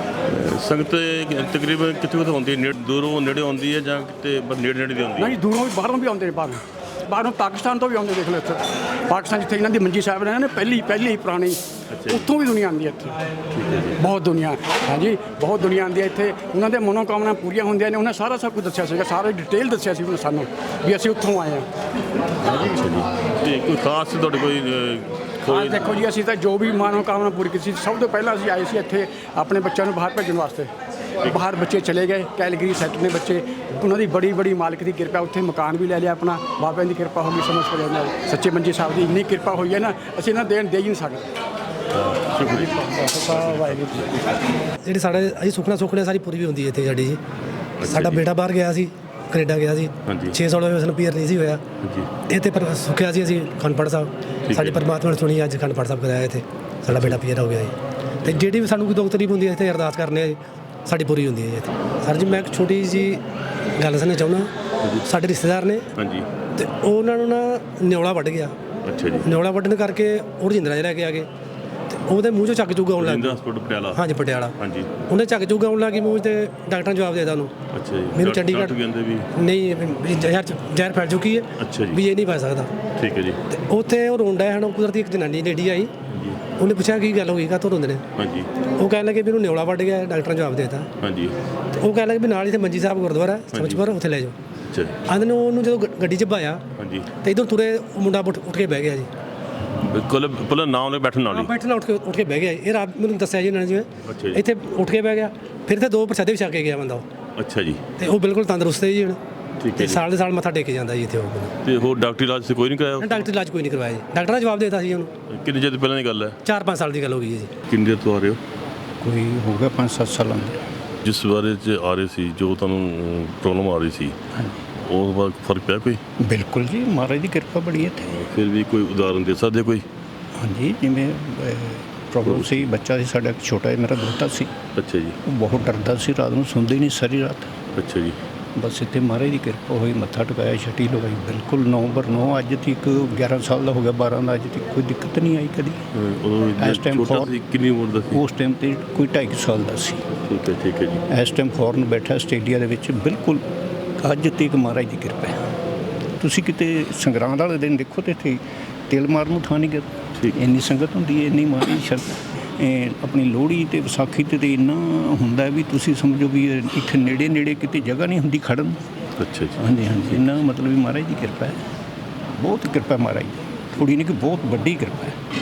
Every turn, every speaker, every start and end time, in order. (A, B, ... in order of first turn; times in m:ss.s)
0:00.3-0:05.4 A
0:05.2-0:13.2 B
0:11.9-0:12.2 A
0:13.5-0:14.0 A
0:14.0-0:21.7 B
0:22.4-0:26.0 A
0:25.4-0:30.7 B
0:31.2-0:41.3 B
0:41.9-0:44.3 A
0:42.8-0:44.1 B
0:44.8-0:47.2 C
0:47.8-0:48.2 A
0:47.8-0:51.6 C
0:50.0-0:50.4 A
0:51.8-0:52.1 A
0:52.3-1:03.2 C
0:54.5-0:54.8 A
0:56.9-0:57.2 A
1:03.8-1:04.5 C
1:04.8-1:05.1 A
1:05.0-1:05.9 C
1:06.0-1:06.3 A
1:06.5-1:08.5 C
1:08.8-1:09.3 A
1:09.2-1:11.3 C
1:11.9-1:13.4 C
1:13.0-1:14.9 A
1:13.9-1:14.6 C
1:15.1-1:17.5 C
1:17.7-1:19.3 A
1:18.1-1:18.8 C
1:19.3-1:22.7 C
1:21.6-1:22.0 A
1:23.0-1:23.4 A
1:23.5-1:25.9 C
1:26.1-1:26.4 A
1:26.6-1:28.0 C
1:28.2-1:28.5 A
1:28.7-1:30.9 C
1:31.0-1:31.4 A
1:31.8-1:34.4 C
1:33.5-1:33.9 A
1:34.7-1:35.0 A
1:35.1-1:36.6 C
1:36.8-1:37.1 A
1:37.2-1:39.1 C
1:39.8-1:41.5 A
1:41.3-1:47.0 C
1:44.0-1:44.4 A
1:47.4-1:47.8 A
1:48.0-1:49.2 C
1:49.6-1:50.0 A
1:49.7-1:51.5 C
1:51.6-1:53.3 A
1:53.0-1:55.1 C
1:55.3-1:56.4 A
1:56.4-1:57.5 C
1:57.7-1:58.4 A
1:59.0-2:00.6 D
2:01.0-2:04.2 A
2:04.8-2:06.0 A
2:06.2-2:08.2 D
2:08.0-2:09.9 A
2:10.3-2:14.5 D
2:12.2-2:12.7 A
2:14.8-2:15.2 A
2:15.2-2:17.5 D
2:17.7-2:18.2 A
2:18.5-2:25.8 D
2:25.9-2:28.2 A
2:26.6-2:27.3 D
2:28.1-2:30.1 D
2:30.2-2:31.0 A
2:31.1-2:33.4 D
2:34.0-2:35.5 D
2:36.2-2:48.8 D
2:49.2-2:50.2 A
2:49.6-2:51.6 D
2:52.4-2:55.2 D